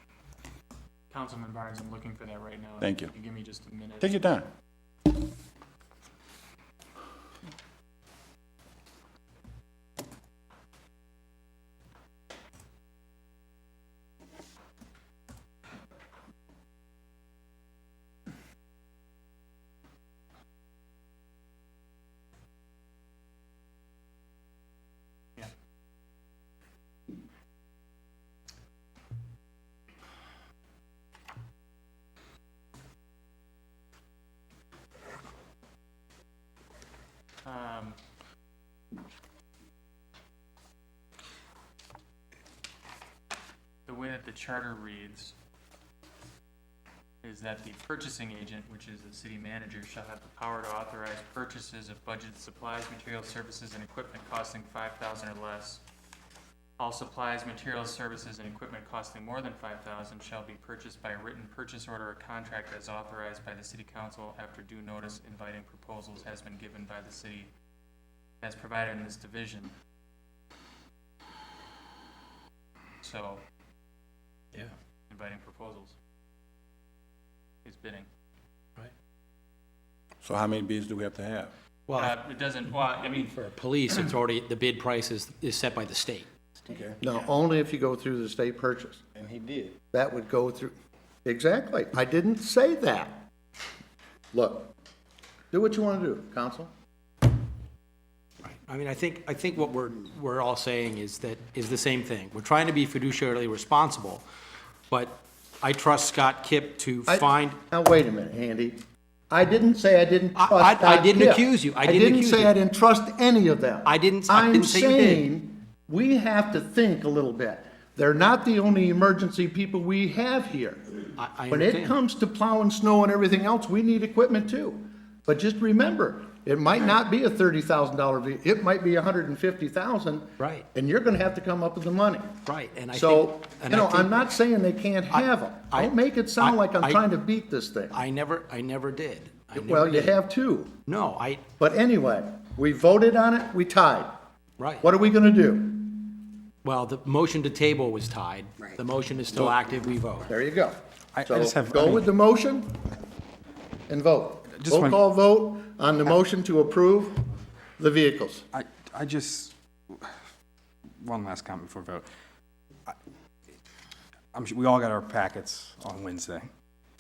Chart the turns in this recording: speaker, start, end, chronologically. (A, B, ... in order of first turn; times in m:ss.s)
0:01.1-0:04.1 A
0:02.8-0:03.1 B
0:04.0-0:04.5 B
0:37.4-0:38.0 A
0:43.9-0:45.4 A
0:47.2-0:55.8 A
0:56.8-1:07.5 A
1:08.4-1:09.7 A
1:13.0-1:13.4 A
1:15.1-1:16.0 A
1:17.6-1:18.1 A
1:20.2-1:21.5 B
1:21.9-1:22.2 C
1:22.0-1:23.4 A
1:23.3-1:26.3 C
1:26.6-1:27.0 B
1:27.0-1:29.0 D
1:29.2-1:29.8 B
1:29.9-1:30.7 D
1:31.2-1:33.3 D
1:34.3-1:34.7 D
1:35.5-1:36.7 D
1:38.4-1:44.3 C
1:44.9-1:47.6 C
1:47.1-2:00.8 D
1:50.4-1:52.6 C
1:53.8-1:55.2 C
2:01.2-2:02.0 C
2:01.5-2:12.4 D
2:10.4-2:10.7 C
2:12.4-2:14.2 C
2:12.9-2:18.0 D
2:15.1-2:17.0 C
2:17.9-2:20.2 C
2:19.5-2:20.8 D
2:20.9-2:21.4 C
2:21.6-2:24.2 D
2:24.6-2:24.9 C
2:24.8-2:26.3 D
2:26.6-2:30.3 C
2:30.3-2:32.8 D
2:31.2-2:32.1 E
2:33.9-2:37.2 D
2:34.5-2:35.0 E
2:37.8-2:38.5 D
2:38.5-2:40.2 E
2:41.0-2:42.1 E
2:44.3-2:46.5 E